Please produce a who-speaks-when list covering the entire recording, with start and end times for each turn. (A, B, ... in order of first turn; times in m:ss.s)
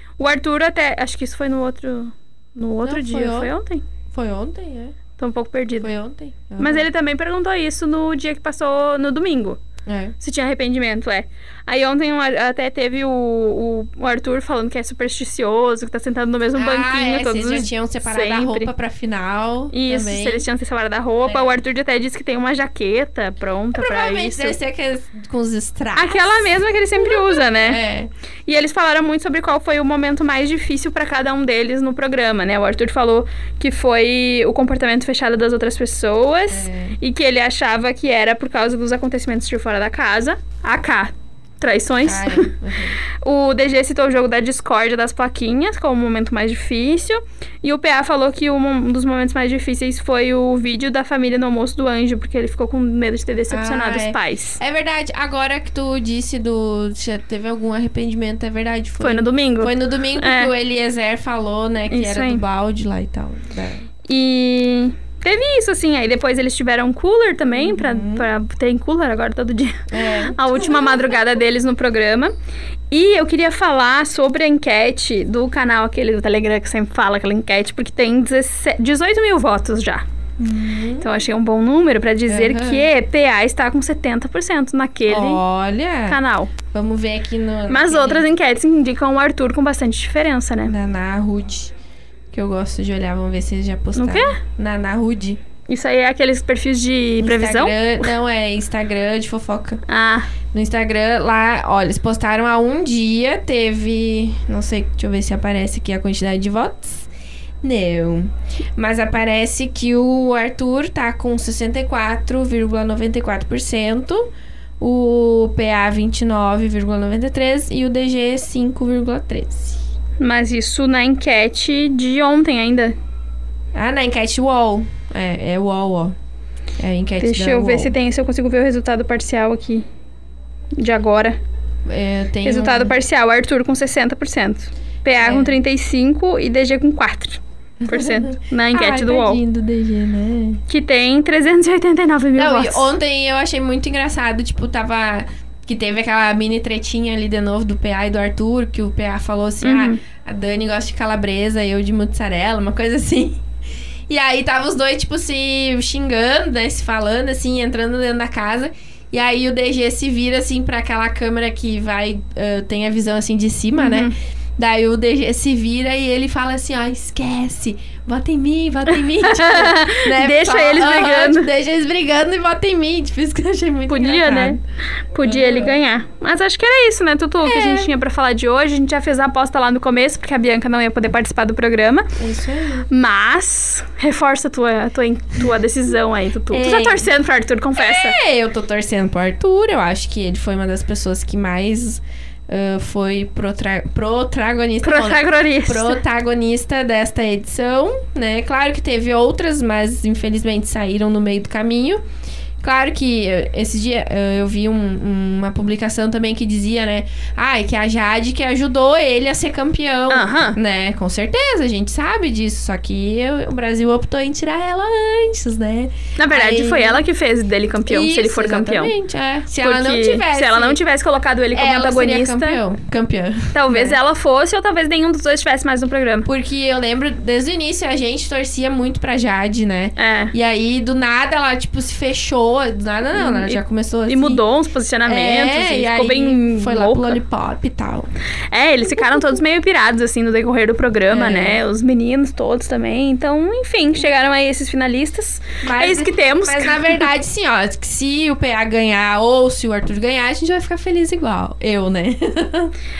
0:00.2-0:03.8 A
0:02.8-0:03.5 B
0:04.1-0:05.0 B
0:05.2-0:05.9 A
0:05.8-0:06.9 B
0:06.6-0:09.6 A
0:09.8-0:10.1 B
0:10.2-0:18.7 A
0:16.5-0:20.5 B
0:19.7-0:24.6 A
0:21.2-0:21.6 B
0:23.7-0:28.1 B
0:25.9-0:27.8 A
0:28.5-0:42.5 A
0:36.5-0:37.0 B
0:42.0-0:43.0 B
0:43.2-0:54.6 A
0:53.5-1:03.9 B
0:59.0-1:00.5 A
1:01.9-1:02.4 A
1:04.1-1:12.3 A
1:07.5-1:08.3 B
1:09.9-1:11.0 B
1:12.9-1:20.0 A
1:20.4-1:21.1 B
1:21.0-1:25.4 A
1:22.3-1:22.9 B
1:25.1-1:28.3 B
1:26.1-1:26.5 A
1:27.7-1:30.7 A
1:30.6-1:31.7 B
1:32.3-1:35.4 B
1:34.0-1:34.4 A
1:35.7-1:38.1 A
1:37.2-1:39.8 B
1:39.9-1:40.3 A
1:40.5-1:47.1 B
1:47.6-1:59.8 B
2:00.2-2:02.9 A
2:03.7-2:06.2 B
2:06.8-2:07.9 B
2:07.2-2:09.8 A
2:10.8-2:11.4 A
2:11.8-2:13.0 B
2:12.4-2:19.4 A
2:15.2-2:15.6 B
2:17.8-2:20.6 B
2:20.7-2:22.9 A
2:22.4-2:33.4 B
2:29.6-2:30.0 A
2:34.1-2:54.6 B
2:43.8-2:44.1 A
2:48.9-2:51.5 A
2:53.9-2:54.6 A
2:55.1-3:02.2 A
2:55.2-2:55.8 B
2:57.4-2:57.9 B
3:02.2-3:02.9 B
3:02.9-3:08.2 A
3:06.5-3:07.1 B
3:07.8-3:22.0 B
3:14.8-3:16.0 A
3:22.6-3:37.0 B
3:30.1-3:30.6 A
3:36.2-3:38.9 A
3:37.9-3:40.8 B
3:39.6-3:42.6 A
3:41.5-3:44.0 B
3:43.5-3:46.3 A
3:46.2-3:54.4 B
3:50.0-3:50.3 A
3:53.1-3:57.2 A
3:55.0-3:58.1 B
3:58.5-4:07.1 A
4:01.1-4:01.6 B
4:05.6-4:12.7 B